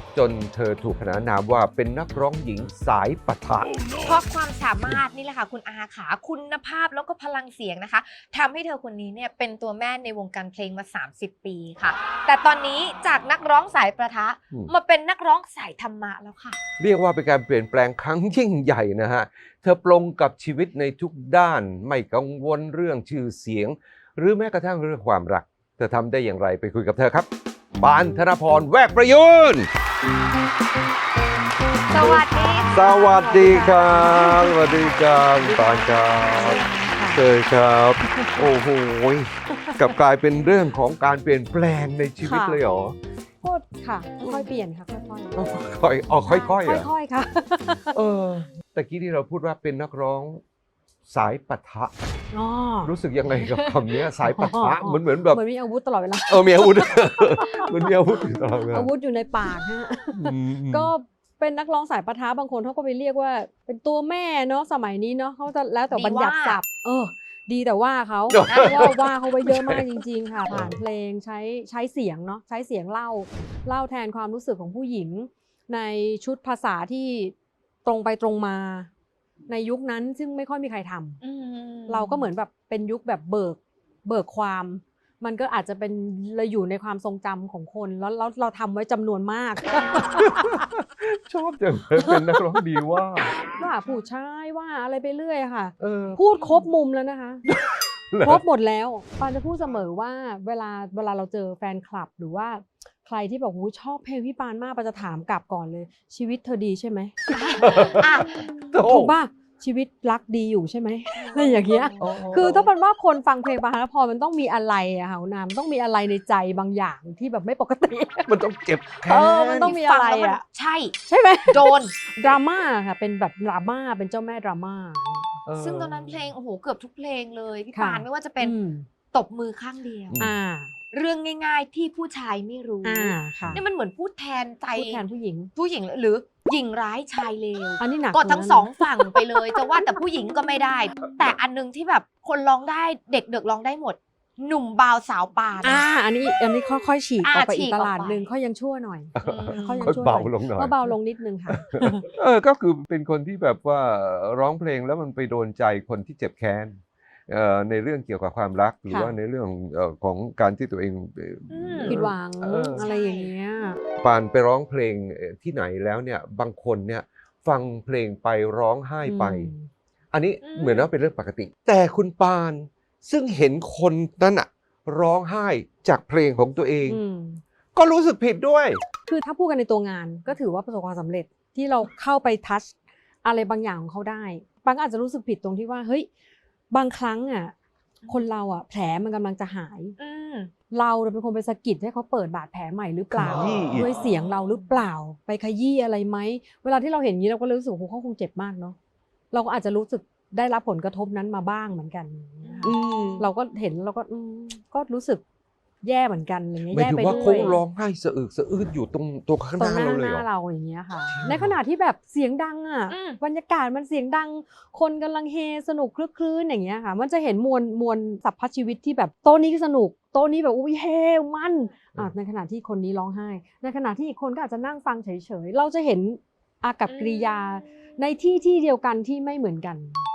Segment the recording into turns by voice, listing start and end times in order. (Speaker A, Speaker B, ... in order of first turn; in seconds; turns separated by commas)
Speaker A: 0.1-3.7, Speaker B: 4.0-16.6, Speaker A: 16.8-29.7, Speaker B: 31.9-32.9, Speaker A: 32.7-43.0, Speaker C: 32.8-34.8, Speaker C: 35.4-37.2, Speaker C: 42.2-42.6, Speaker C: 43.4-45.4, Speaker A: 44.2-44.5, Speaker A: 45.3-46.9, Speaker C: 46.2-47.9, Speaker A: 47.9-50.4, Speaker A: 51.1-51.9, Speaker C: 52.3-52.9, Speaker A: 52.8-55.4, Speaker C: 53.4-57.9, Speaker A: 56.3-58.9, Speaker C: 58.7-77.3, Speaker A: 60.2-60.9, Speaker B: 65.9-66.6, Speaker A: 68.3-69.8, Speaker B: 68.4-68.9, Speaker A: 70.5-70.8, Speaker C: 77.8-78.9, Speaker C: 79.5-81.2, Speaker B: 81.2-82.3, Speaker C: 81.9-90.5, Speaker A: 90.2-93.3, Speaker C: 93.4-97.4, Speaker A: 95.8-96.2, Speaker A: 97.5-98.4, Speaker C: 98.2-107.2, Speaker B: 107.3-108.5, Speaker A: 107.6-108.2, Speaker A: 108.7-109.1, Speaker C: 108.8-118.3, Speaker B: 111.2-112.1, Speaker A: 112.0-112.7, Speaker A: 118.3-119.7, Speaker C: 119.0-120.4, Speaker B: 119.5-122.0, Speaker C: 121.0-125.3, Speaker A: 125.5-126.3, Speaker B: 125.6-128.5, Speaker C: 127.7-128.9, Speaker B: 129.1-130.2, Speaker A: 130.1-130.4, Speaker C: 130.2-130.7, Speaker B: 130.9-135.0, Speaker C: 132.8-133.6, Speaker C: 134.7-135.5, Speaker B: 135.5-145.8, Speaker C: 137.8-139.6, Speaker C: 145.6-152.0, Speaker B: 147.2-148.2, Speaker A: 149.2-150.9, Speaker B: 149.2-149.9, Speaker A: 152.1-162.8, Speaker C: 158.9-159.1, Speaker B: 161.5-162.0, Speaker C: 161.8-163.8, Speaker B: 162.7-163.3, Speaker A: 164.0-169.5, Speaker C: 169.1-169.7, Speaker A: 170.1-177.0, Speaker B: 170.4-170.9, Speaker C: 176.8-177.4, Speaker A: 177.7-178.8, Speaker C: 179.1-186.1, Speaker C: 186.7-187.5, Speaker C: 188.1-189.9, Speaker B: 190.0-190.5, Speaker C: 190.7-198.8, Speaker A: 193.1-193.9, Speaker B: 193.3-194.8, Speaker C: 199.3-205.2, Speaker B: 202.4-202.7, Speaker A: 202.6-203.3, Speaker C: 205.8-207.6, Speaker A: 206.7-210.3, Speaker B: 207.0-207.6, Speaker C: 209.6-230.1, Speaker A: 211.1-211.6, Speaker B: 212.9-213.2, Speaker B: 226.8-227.5